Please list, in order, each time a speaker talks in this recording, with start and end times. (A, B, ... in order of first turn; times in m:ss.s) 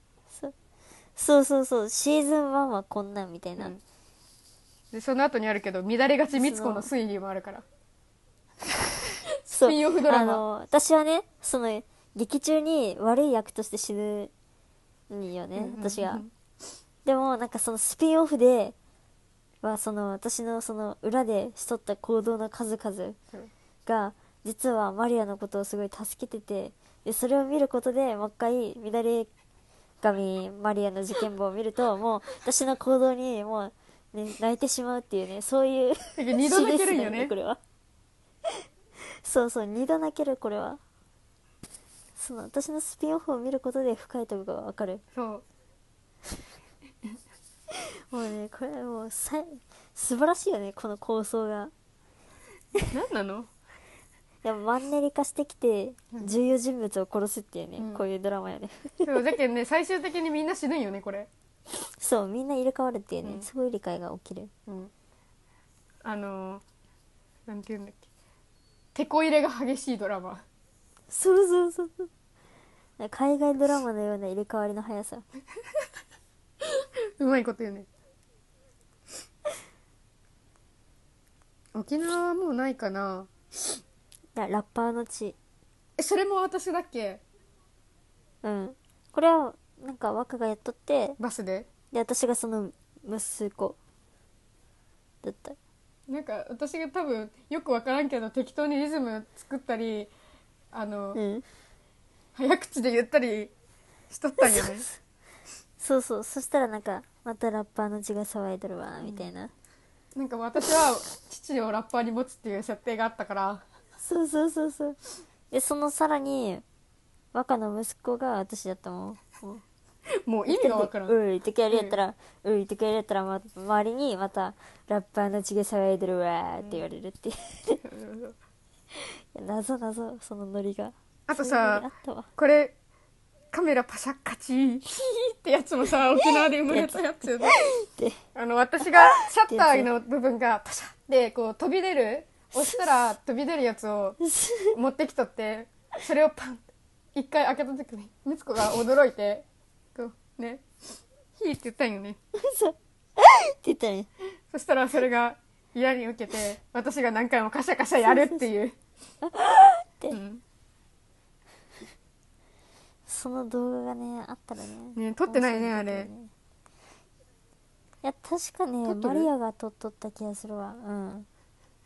0:01.2-0:03.7 A
0:04.9-0:07.6 B
0:06.4-0:06.9 A
0:09.5-0:14.3 A
0:09.6-0:10.4 B
0:15.1-0:16.2 A
0:15.6-0:16.3 B
0:17.0-0:18.8 A
0:19.6-0:23.2 A
0:23.9-0:29.3 A
0:30.0-0:37.6 A
0:36.2-0:37.3 B
0:39.2-0:40.8 A
0:42.2-0:45.0 A
0:45.2-0:45.4 B
0:48.1-0:51.7 A
0:52.9-0:53.5 B
0:54.4-0:59.1 A
0:57.8-0:58.0 B
0:59.0-1:01.3 B
1:01.8-1:04.5 A
1:06.0-1:06.6 B
1:07.5-1:08.1 B
1:09.0-1:10.4 B
1:11.1-1:12.1 A
1:13.0-1:15.2 A
1:17.2-1:17.9 B
1:21.8-1:23.3 B
1:24.4-1:25.4 A
1:26.0-1:27.2 B
1:28.4-1:31.2 A
1:31.2-1:31.7 B
1:31.9-1:33.8 A
1:35.2-1:35.6 A
1:36.1-1:40.1 B
1:40.7-1:41.2 B
1:41.2-1:41.4 A
1:42.4-1:43.5 B
1:44.1-1:44.9 B
1:44.4-1:44.8 A
1:45.8-1:49.5 A
1:49.0-1:49.3 B
1:50.2-1:53.6 B
1:54.0-1:55.0 A
1:55.5-1:56.6 A
1:57.3-1:59.6 A
2:00.3-2:01.2 B
2:00.5-2:07.8 A
2:01.7-2:02.0 B
2:07.8-2:08.4 B
2:09.1-2:12.3 A
2:11.3-2:11.8 B
2:12.4-2:12.8 B
2:13.5-2:17.6 B
2:16.2-2:18.2 A
2:18.4-2:24.2 B
2:19.0-2:19.9 A
2:22.5-2:22.8 A
2:24.3-2:24.8 A
2:24.7-2:30.6 B
2:31.4-2:32.2 B
2:32.4-2:34.1 A
2:34.5-2:38.8 B
2:38.0-2:38.5 A
2:39.2-2:40.2 A
2:40.1-2:40.4 B
2:43.1-2:46.3 A
2:45.0-2:46.1 B
2:48.0-2:51.3 A
2:48.8-2:49.3 B